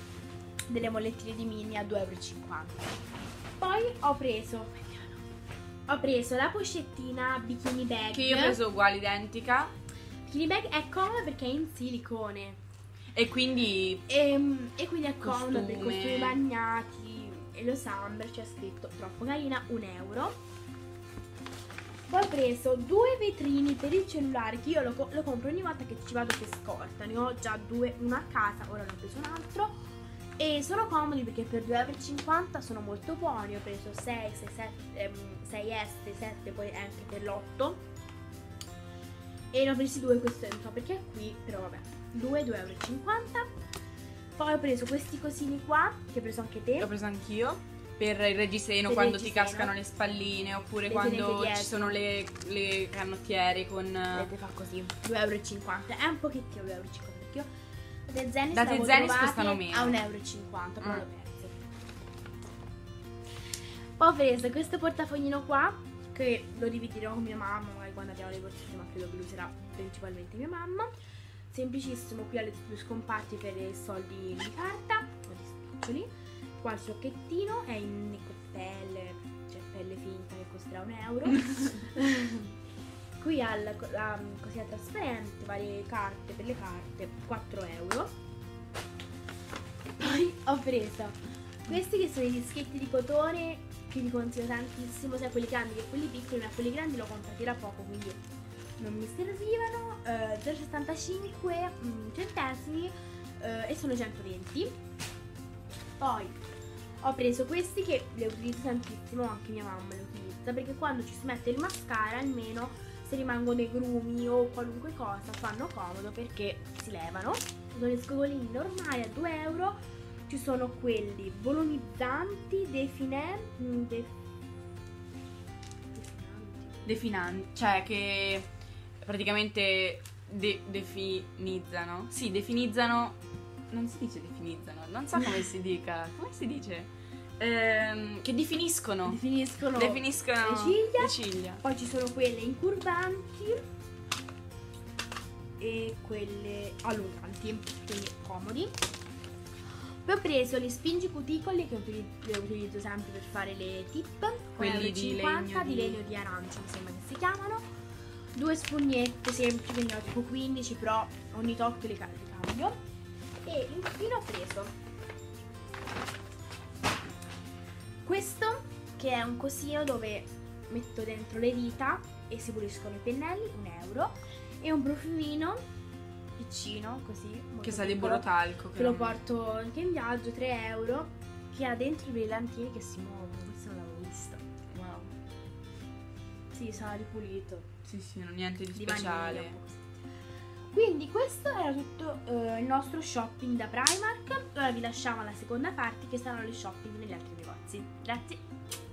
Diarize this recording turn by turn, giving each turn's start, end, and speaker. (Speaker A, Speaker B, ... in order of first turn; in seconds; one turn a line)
Speaker A: 0.7-2.9
Speaker A: 3.6-5.3
Speaker A: 5.9-8.6
Speaker B: 8.1-9.7
Speaker A: 10.3-12.6
Speaker B: 13.2-14.1
Speaker A: 14.1-20.4
Speaker B: 15.2-16.4
Speaker A: 22.1-29.8
Speaker A: 30.4-37.8
Speaker A: 39.5-43.5
Speaker A: 44.4-46.9
Speaker B: 46.8-54.3
Speaker A: 48.9-49.8
Speaker A: 50.9-52.0
Speaker A: 54.1-57.5
Speaker A: 58.1-61.6
Speaker B: 58.5-60.0
Speaker A: 64.0-70.9
Speaker A: 71.5-82.5
Speaker A: 83.2-88.1
Speaker A: 90.0-98.2
Speaker A: 98.8-104.8
Speaker A: 106.0-106.4
Speaker A: 107.0-119.8
Speaker A: 120.3-124.1
Speaker A: 126.0-127.0
Speaker B: 126.9-128.5
Speaker B: 129.0-133.2
Speaker B: 133.7-139.2
Speaker A: 139.1-143.6
Speaker B: 139.8-141.6
Speaker A: 145.6-148.8
Speaker A: 150.0-157.7
Speaker B: 154.6-156.0
Speaker A: 158.3-162.8
Speaker A: 163.4-164.7
Speaker A: 168.0-175.6
Speaker A: 176.4-184.4
Speaker B: 177.6-179.2
Speaker B: 184.7-185.1
Speaker A: 186.5-187.7
Speaker B: 187.9-189.6
Speaker A: 188.7-190.0
Speaker A: 190.7-198.4